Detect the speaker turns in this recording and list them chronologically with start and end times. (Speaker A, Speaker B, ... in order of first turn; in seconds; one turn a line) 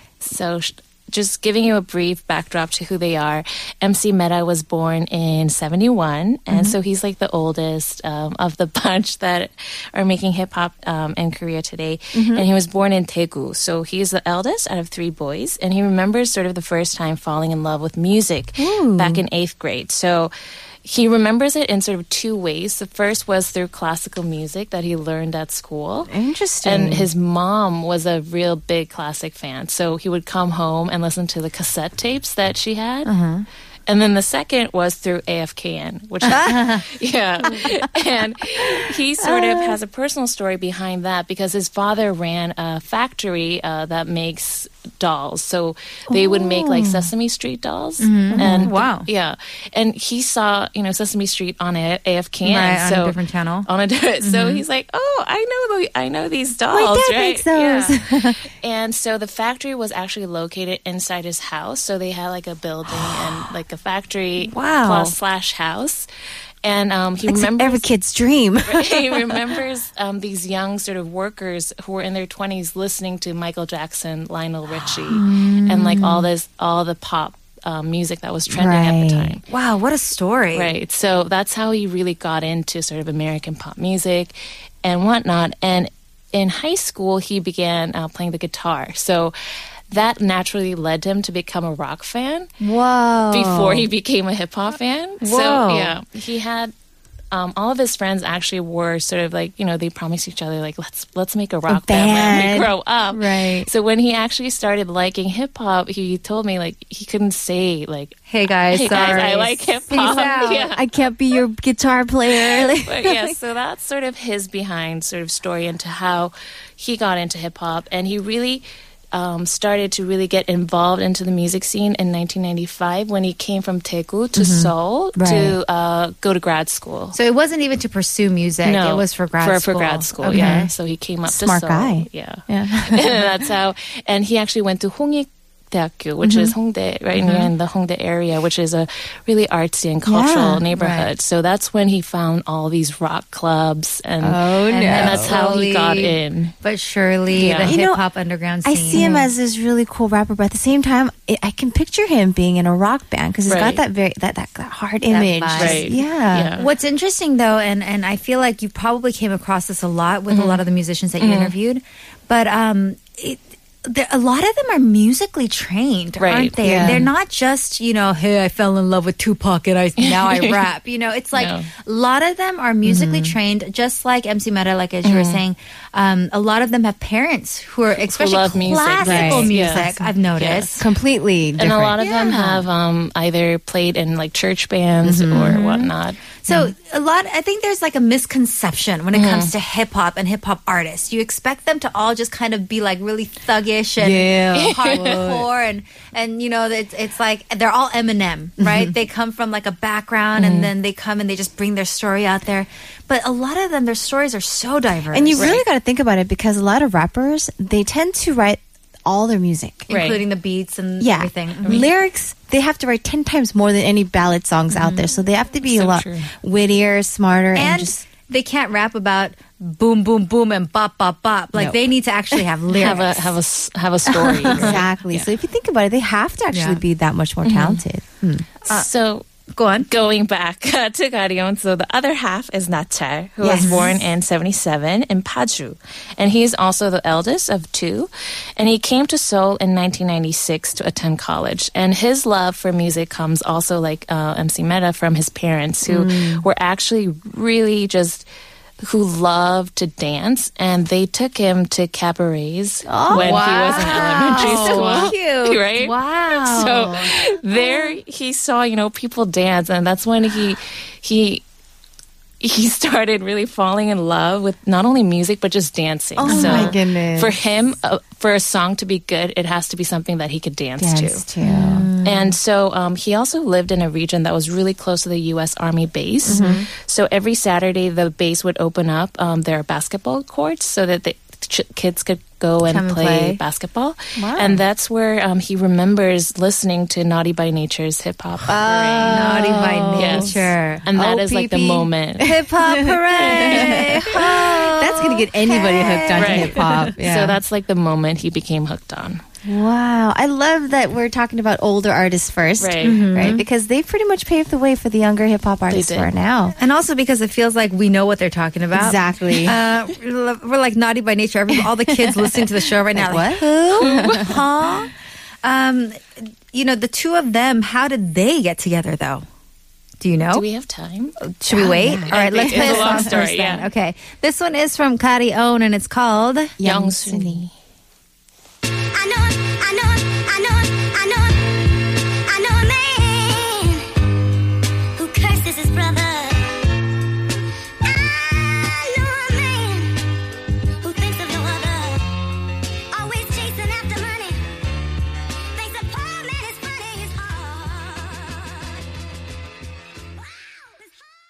Speaker A: 0.2-20.3
Speaker B: 6.5-6.8
Speaker B: 12.1-12.4
Speaker B: 18.6-19.2
Speaker A: 20.8-33.1
Speaker B: 26.1-27.1
Speaker C: 33.0-33.5
Speaker A: 33.9-66.1
Speaker B: 36.2-36.9
Speaker B: 37.5-37.9
Speaker B: 38.6-39.8
Speaker B: 46.1-47.1
Speaker C: 48.0-49.1
Speaker B: 48.3-48.7
Speaker C: 52.4-53.7
Speaker C: 54.2-54.6
Speaker B: 56.7-58.4
Speaker C: 64.4-65.2
Speaker A: 66.6-67.9
Speaker B: 67.2-69.6
Speaker A: 68.7-79.4
Speaker B: 75.1-76.3
Speaker B: 78.5-79.4
Speaker C: 79.5-80.7
Speaker A: 80.5-89.3
Speaker A: 89.9-92.5
Speaker B: 92.6-93.9
Speaker A: 93.3-96.7
Speaker C: 95.2-95.9
Speaker A: 97.3-110.8
Speaker B: 101.7-103.7
Speaker C: 108.3-110.7
Speaker B: 110.7-113.4
Speaker A: 112.4-127.2
Speaker C: 124.4-124.7
Speaker B: 125.1-125.6
Speaker C: 127.1-130.7
Speaker A: 128.6-146.5
Speaker B: 130.3-130.7
Speaker B: 131.2-133.3
Speaker C: 136.2-136.5
Speaker B: 140.0-140.6
Speaker C: 140.7-141.1
Speaker B: 144.2-145.3
Speaker C: 144.7-149.3
Speaker A: 147.3-147.7
Speaker B: 147.6-148.0
Speaker B: 148.6-156.5
Speaker A: 148.9-149.2
Speaker A: 153.5-153.8
Speaker C: 155.1-155.8
Speaker A: 155.6-156.7
Speaker C: 156.6-180.8
Speaker A: 160.3-160.6
Speaker A: 161.2-161.5
Speaker A: 166.2-167.0
Speaker B: 166.6-167.1
Speaker A: 170.0-170.6
Speaker A: 171.3-171.7
Speaker B: 172.8-173.3
Speaker A: 175.0-175.4
Speaker A: 178.0-180.8
Speaker B: 179.0-180.1
Speaker B: 180.8-182.6
Speaker A: 181.6-186.2
Speaker C: 182.0-182.4
Speaker B: 185.0-185.6
Speaker C: 185.4-185.9
Speaker C: 186.4-205.6
Speaker A: 189.1-189.5
Speaker B: 194.0-195.4
Speaker A: 194.5-195.3
Speaker B: 198.6-198.9
Speaker A: 200.4-200.7
Speaker B: 205.1-209.9
Speaker A: 205.3-205.6
Speaker C: 209.9-211.9
Speaker A: 209.9-210.2
Speaker B: 211.0-217.9
Speaker C: 214.7-215.0
Speaker A: 215.7-216.3
Speaker C: 217.5-223.3
Speaker B: 221.5-221.8
Speaker A: 222.8-225.3
Speaker C: 224.2-224.8
Speaker B: 224.4-228.5
Speaker C: 226.5-226.8
Speaker A: 227.4-227.8
Speaker A: 228.6-229.2
Speaker C: 229.5-229.9
Speaker A: 229.9-248.3
Speaker B: 233.4-234.0
Speaker C: 233.5-233.9
Speaker B: 245.8-246.4
Speaker A: 248.8-261.4
Speaker B: 252.8-255.1
Speaker C: 253.1-257.1
Speaker A: 262.4-271.2
Speaker B: 266.2-267.4
Speaker C: 266.2-266.7
Speaker B: 270.8-271.9
Speaker C: 271.4-272.4
Speaker A: 272.0-289.4
Speaker C: 276.2-276.6
Speaker B: 276.2-276.6
Speaker C: 282.6-283.4
Speaker B: 284.2-284.6
Speaker B: 288.4-297.4
Speaker C: 289.1-296.8
Speaker A: 289.9-292.3
Speaker A: 293.1-294.1
Speaker A: 296.2-299.2
Speaker B: 299.4-306.6
Speaker A: 302.6-303.0
Speaker C: 302.8-303.4
Speaker A: 305.7-306.1
Speaker C: 306.6-314.9
Speaker B: 308.7-309.6
Speaker B: 311.9-314.3
Speaker A: 313.8-314.4
Speaker C: 315.4-319.2
Speaker C: 320.0-320.4
Speaker A: 320.3-321.2
Speaker C: 321.2-326.6
Speaker B: 321.5-323.2
Speaker A: 322.1-323.7
Speaker B: 326.6-327.4
Speaker A: 326.6-327.5
Speaker D: 328.8-334.0
Speaker D: 335.0-336.7
Speaker D: 337.8-340.1
Speaker D: 340.8-342.2
Speaker D: 342.9-344.5
Speaker D: 345.5-348.7
Speaker D: 350.2-350.9